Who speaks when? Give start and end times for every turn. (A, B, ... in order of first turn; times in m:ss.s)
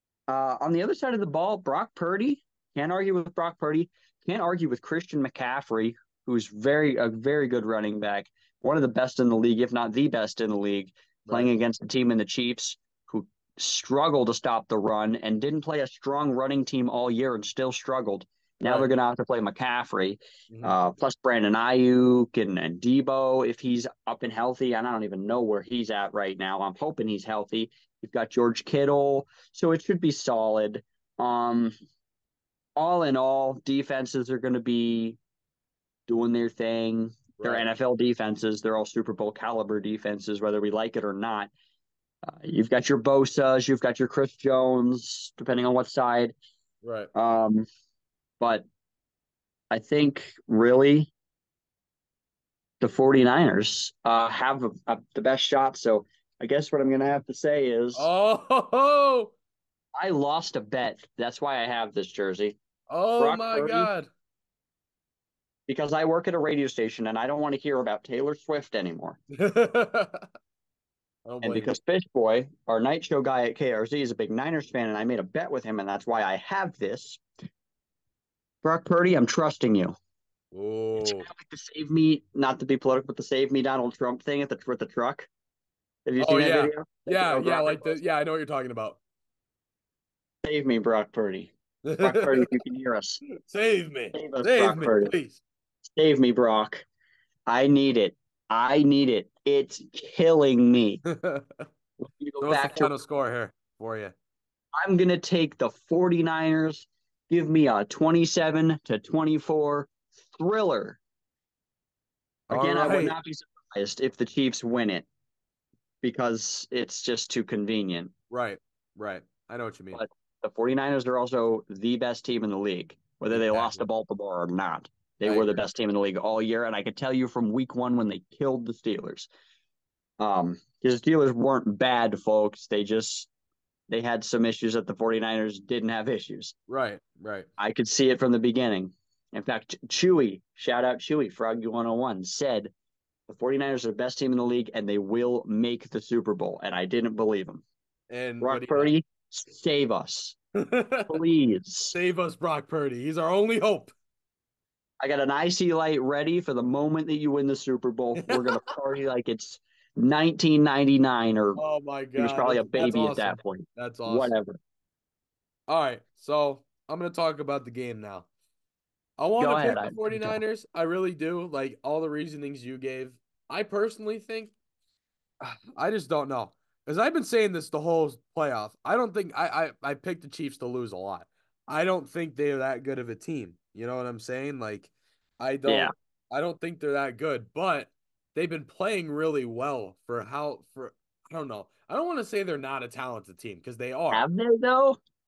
0:00.3-0:31.7 A
0:11.3-0:11.5 B
0:18.6-0:18.9 B
0:20.5-0:20.8 B
0:32.8-0:35.2 A
0:36.1-0:41.5 A
0:37.4-0:37.7 B
0:42.2-0:46.4 A
0:46.8-0:47.1 B
0:47.1-0:47.7 A
0:48.4-0:48.6 A
0:49.7-0:51.1 A
0:52.8-0:58.1 A
0:58.0-0:59.3 B
1:00.0-1:02.6 A
1:02.9-1:04.1 B
1:03.2-1:03.9 A
1:05.7-1:09.2 A
1:09.4-1:10.3 B
1:11.3-1:11.7 B
1:11.4-1:17.2 A
1:18.6-1:19.9 A
1:20.5-1:21.3 B
1:21.0-1:25.3 A
1:26.1-1:28.0 A
1:26.2-1:29.0 B
1:30.4-1:33.2 A
1:31.8-1:32.5 B
1:33.4-1:35.4 B
1:34.1-1:35.1 A
1:35.9-1:36.8 A
1:37.5-1:41.0 A
1:41.1-1:41.6 B
1:42.0-1:42.9 A
1:42.4-1:44.1 B
1:44.8-1:51.0 A
1:52.5-1:53.2 B
1:52.5-1:55.1 A
1:56.0-1:58.1 A
1:58.3-2:00.0 B
1:59.9-2:09.3 A
2:03.3-2:03.8 B
2:05.2-2:05.6 B
2:10.2-2:13.3 A
2:13.9-2:16.6 A
2:16.7-2:17.5 B
2:17.6-2:22.7 A
2:23.3-2:27.6 A
2:28.1-2:28.9 B
2:28.4-2:30.4 A
2:30.6-2:31.2 B
2:31.1-2:32.0 A
2:31.9-2:33.9 B
2:35.0-2:41.6 A
2:38.2-2:38.6 B
2:41.6-2:44.3 B
2:42.2-2:44.6 A
2:45.7-2:48.3 B
2:49.2-2:54.5 B
2:49.4-2:50.4 A
2:55.4-3:14.3 B
3:05.7-3:05.9 A
3:14.1-3:15.0 A